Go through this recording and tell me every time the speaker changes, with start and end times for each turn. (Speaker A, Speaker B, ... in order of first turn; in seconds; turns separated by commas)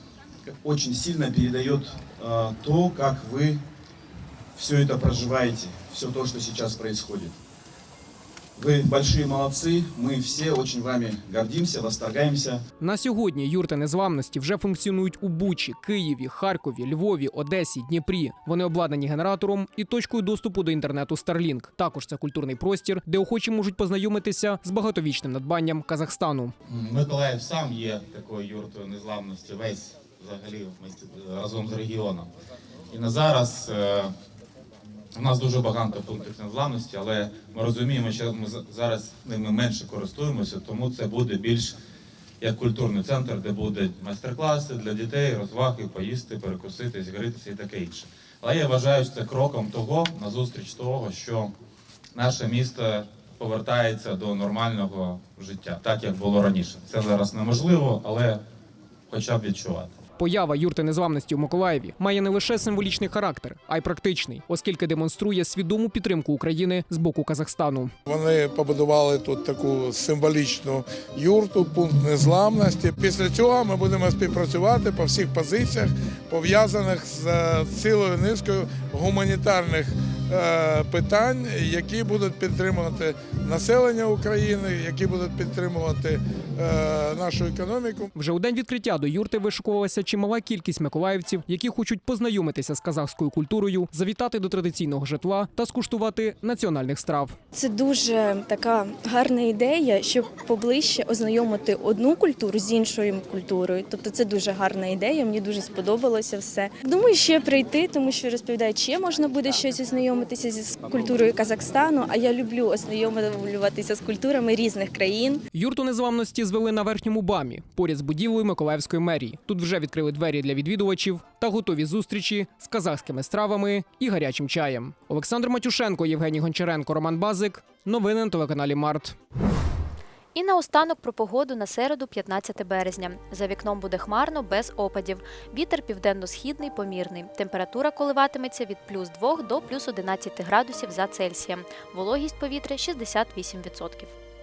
Speaker A: 0.5-3.6, Speaker A: 4.6-7.4, Speaker A: 8.6-12.6, Speaker B: 12.8-26.5, Speaker C: 26.7-32.3, Speaker C: 32.9-34.1, Speaker C: 35.1-41.8, Speaker C: 42.4-51.5, Speaker C: 52.1-58.4, Speaker C: 59.1-59.9, Speaker B: 60.2-67.9, Speaker D: 68.1-88.1, Speaker B: 88.2-97.3, Speaker E: 97.5-115.4, Speaker B: 115.5-129.2, Speaker F: 130.3-144.1